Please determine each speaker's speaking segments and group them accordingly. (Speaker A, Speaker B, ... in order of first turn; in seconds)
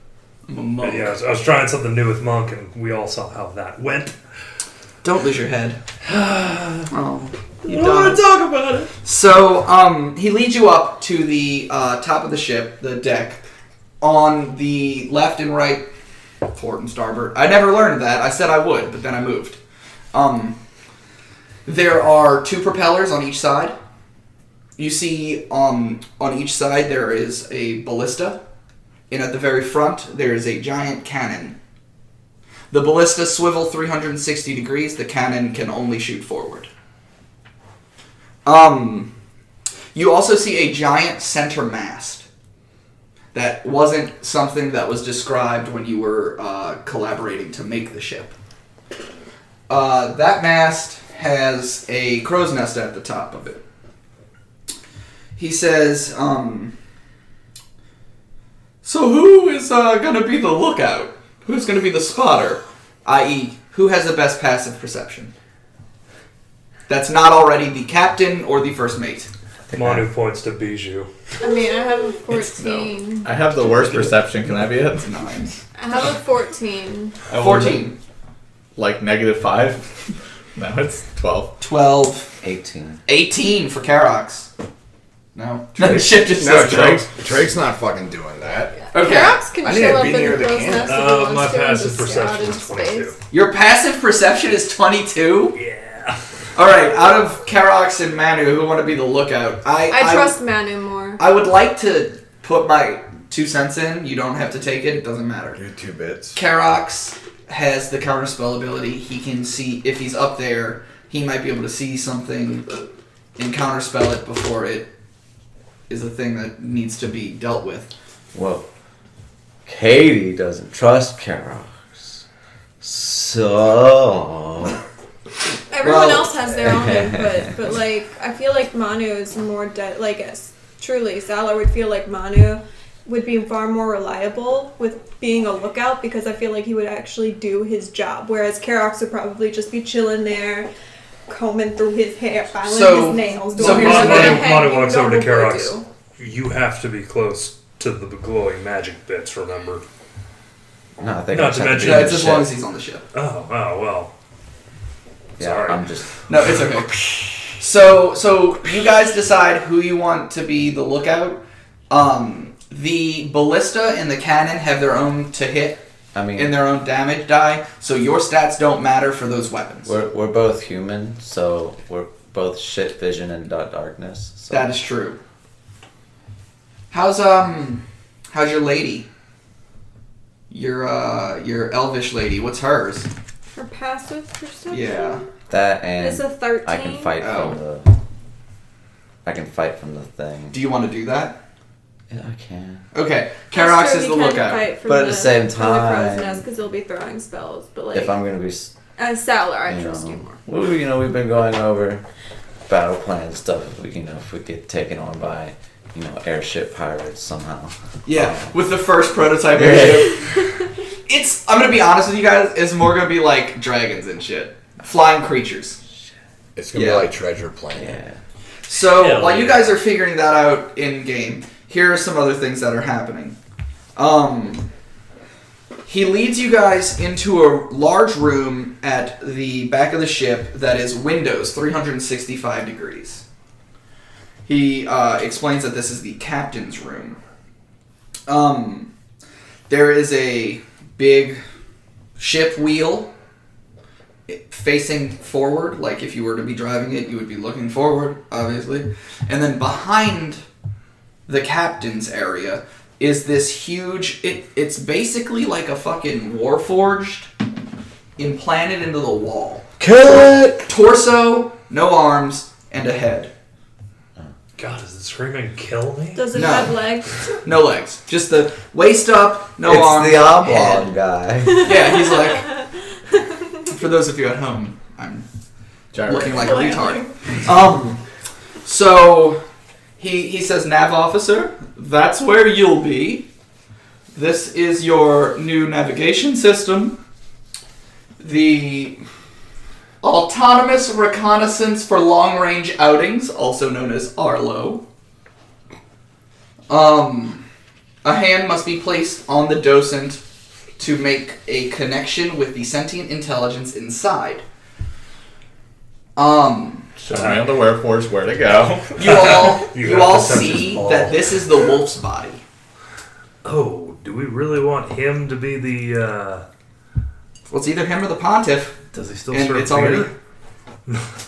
Speaker A: 0.5-1.1, 5.0-5.8, 6.9-8.2, 9.0-13.4, 14.0-15.9, 16.5-19.6, 20.1-20.6, 21.6-23.8, 24.8-28.4, 29.1-31.6, 32.7-36.7, 38.4-39.1, 39.9-42.2, 43.3-48.3, 49.7-53.6, 55.4-56.7, 58.8-65.3, 66.9-69.3, 75.0-75.5, 77.3-78.0, 81.6-82.3, 83.0-84.5, 85.3-87.0, 88.9-89.4, 93.3-95.6, 96.5-100.4, 101.2-105.6, 106.3-112.7, 113.4-114.9, 115.9-117.9, 125.8-126.4, 142.7-144.5, 151.8-153.0, 156.3-165.8, 166.3-169.9, 174.5-175.2, 176.9-179.1, 180.5-183.1, 184.7-185.2, 187.2-187.6, 190.5-191.4, 192.9-194.7, 208.0-210.5, 211.1-215.8, 216.7-217.1, 218.7-223.3, 223.9-224.7, 225.9-233.2, 234.4-237.2, 238.3-238.9, 239.7-241.4, 242.2-243.1, 244.3-250.4, 251.3-257.3, 258.2-259.7, 260.6-263.3, 266.3-266.8, 267.4-270.9, 271.6-272.5, 273.6-275.2, 276.0-278.0, 278.6-279.4, 280.0-283.3, 284.1-287.0, 288.2-289.0, 290.0-294.8, 296.7-297.4, 298.0-300.2, 300.8-304.4, 306.1-306.9, 309.0-312.4, 317.5-318.8, 319.3-320.1
Speaker B: 0.8-4.2, 6.0-6.9, 7.6-8.9, 69.7-71.1, 90.8-93.2, 95.5-96.2, 143.6-149.8, 151.3-152.4, 153.1-154.1, 155.4-155.8, 218.9-219.7, 264.6-266.5, 309.1-311.2, 313.4-316.4, 318.9-320.1
Speaker C: 69.7-70.0, 82.4-83.0, 118.3-118.7, 119.7-122.2, 122.8-124.8, 126.6-127.5, 151.0-152.5, 155.4-156.1, 166.1-166.6, 169.8-174.8, 185.5-187.9, 189.2-190.6, 192.1-192.8, 194.8-196.4, 197.9-198.7, 199.7-202.0, 202.7-208.5, 209.5-210.2, 217.7-218.2, 259.8-260.5, 269.6-271.7
Speaker D: 71.4-73.3, 75.8-77.2, 88.9-93.1, 99.9-101.2, 125.7-140.7, 141.3-145.8, 183.5-185.2, 186.0-187.2, 193.5-198.1, 199.0-200.4, 266.1-267.1, 276.4-277.1
Speaker E: 72.6-75.3, 77.3-77.8, 78.8-80.0, 80.5-81.5, 275.9-276.4, 307.0-309.4
Speaker F: 85.8-88.8, 89.6-91.1, 105.5-106.4, 216.6-218.0